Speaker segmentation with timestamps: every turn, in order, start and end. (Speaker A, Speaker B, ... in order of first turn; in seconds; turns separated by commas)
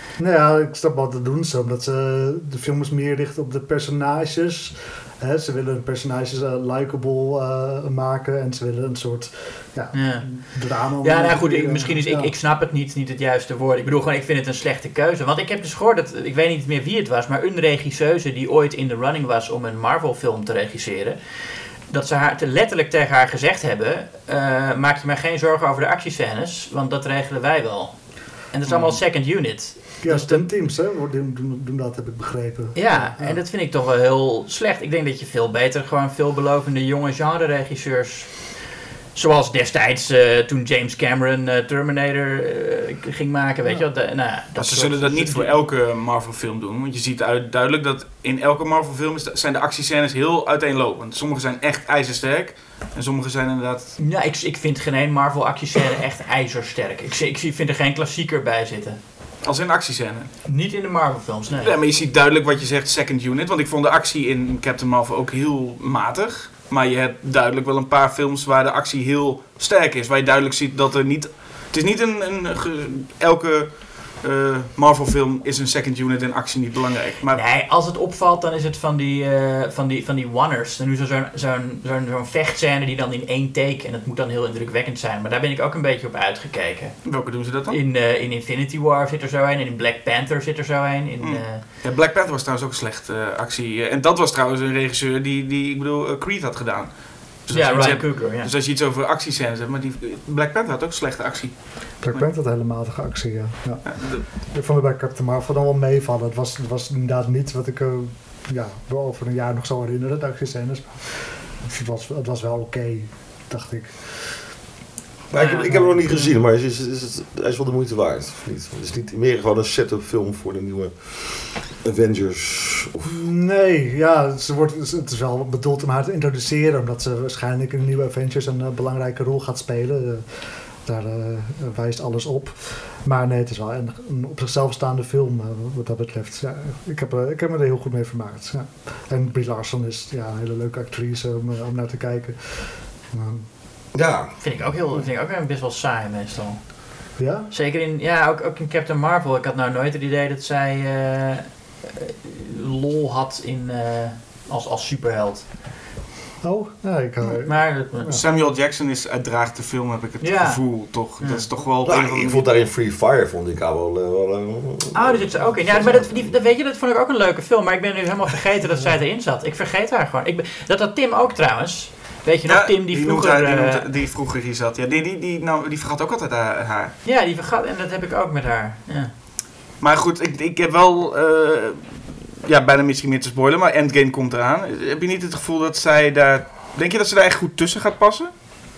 Speaker A: 0.2-12.3, Speaker B: 9.9-21.2, Speaker B: 21.9-30.5, Speaker A: 28.7-29.0, Speaker A: 30.0-33.4, Speaker B: 32.8-38.5, Speaker B: 39.1-45.5, Speaker C: 44.6-54.0, Speaker B: 54.0-59.0, Speaker C: 59.4-60.3, Speaker B: 60.5-61.8, Speaker C: 61.5-77.4, Speaker B: 77.3-87.0, Speaker C: 87.0-87.8, Speaker B: 87.7-91.6, Speaker C: 91.2-102.3, Speaker B: 97.5-98.5, Speaker A: 102.0-114.1, Speaker C: 103.8-104.2, Speaker D: 115.3-123.2, Speaker B: 115.3-116.0, Speaker A: 115.7-116.2, Speaker A: 123.1-130.2, Speaker A: 130.8-143.5, Speaker D: 143.9-145.0, Speaker B: 144.4-155.5, Speaker A: 147.2-147.5, Speaker A: 156.4-158.2, Speaker B: 157.4-158.2, Speaker C: 158.1-162.4, Speaker B: 160.2-161.5, Speaker D: 161.8-166.3, Speaker B: 164.9-173.9, Speaker C: 172.5-176.9, Speaker B: 177.0-179.1, Speaker C: 179.8-188.3